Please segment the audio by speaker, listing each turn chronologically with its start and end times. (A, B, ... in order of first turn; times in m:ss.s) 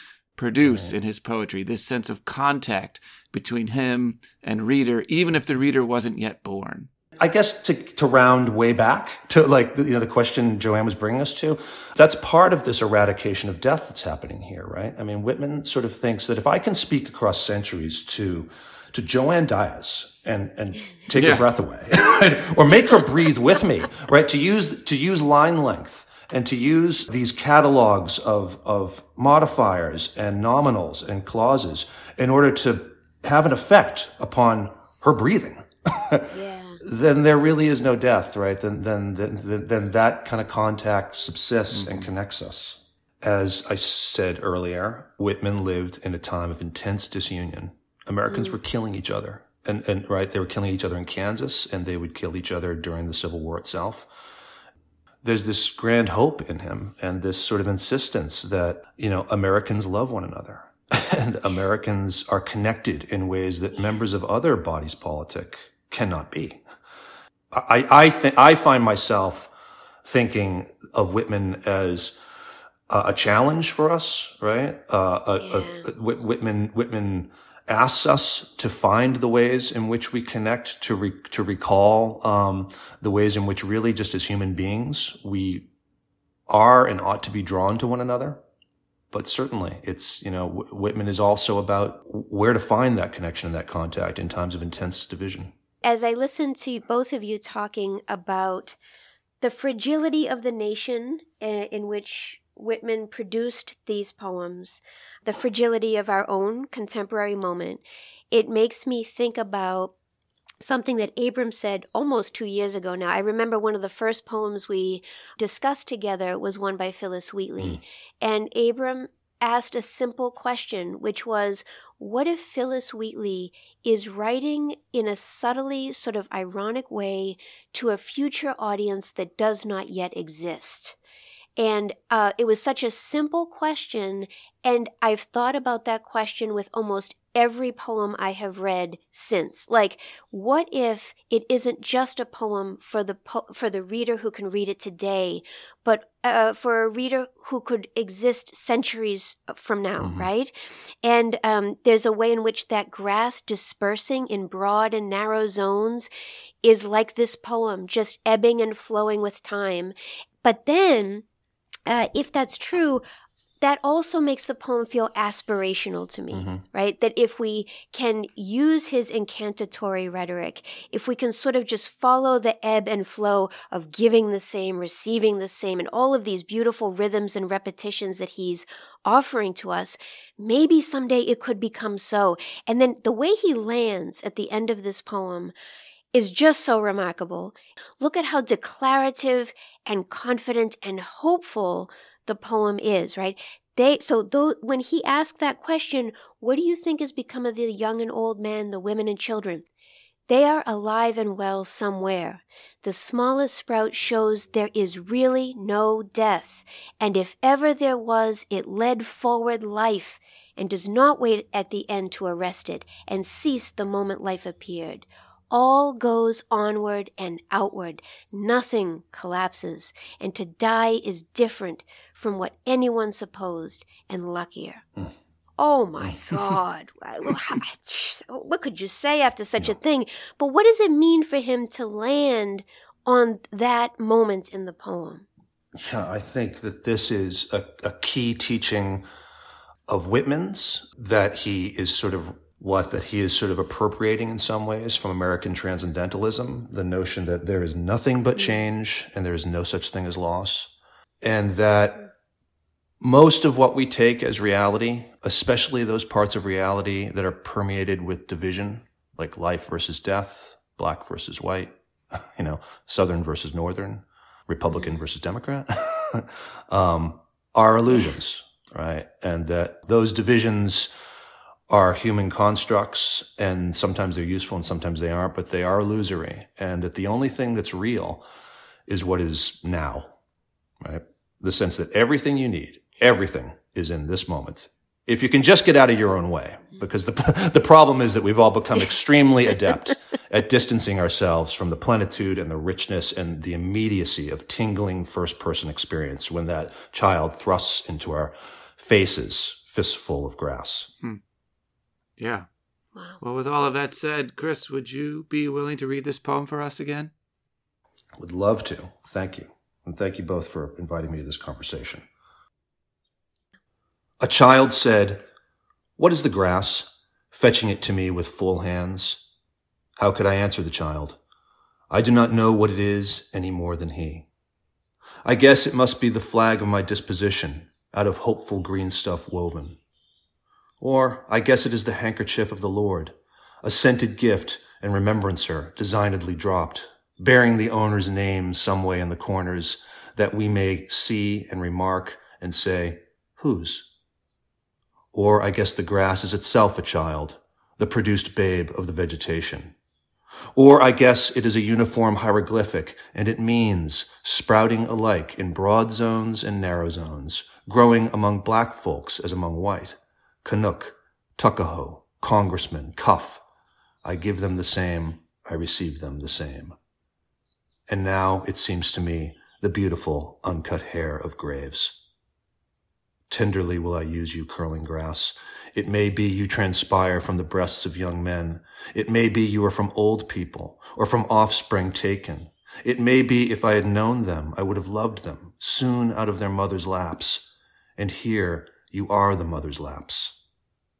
0:00.4-0:06.9 A
0:00.6-0:01.0 B
0:07.2-0:54.1 B
0:21.1-0:21.4 A
0:36.3-0:36.8 C
0:41.7-0:42.1 A
0:48.3-0:48.5 C
0:55.2-1:06.6 B
1:07.5-1:09.5 B
1:10.0-1:12.2 B
1:12.9-1:25.7 B
1:15.4-1:15.8 C
1:26.5-1:28.4 B
1:29.1-1:35.5 B
1:35.8-1:38.8 C
1:39.4-1:49.9 C
1:50.6-2:11.0 C
2:11.6-2:36.1 C
2:30.0-2:30.3 B
2:36.6-2:41.2 C
2:41.9-2:43.0 C
2:43.6-3:05.5 C
2:46.3-2:46.6 B
3:06.1-3:19.6 C
3:20.3-3:44.8 C
3:45.6-3:55.2 C
3:46.1-3:46.4 B
3:55.8-3:59.0 B
3:59.9-4:12.0 B
4:13.0-4:30.9 B
4:31.7-4:38.2 B
4:38.9-4:40.1 B
4:40.8-5:00.9 B
5:02.2-5:02.5 A
5:03.2-5:07.1 A
5:08.2-5:12.0 B
5:14.2-5:15.2 B
5:16.0-5:19.2 B
5:20.0-5:21.2 B
5:21.9-5:24.3 B
5:25.2-5:29.8 B
5:30.8-5:43.9 B
5:45.1-5:49.7 B
5:50.5-6:03.4 B
6:04.0-6:06.8 B
6:07.9-6:12.0 B
6:13.3-6:30.4 B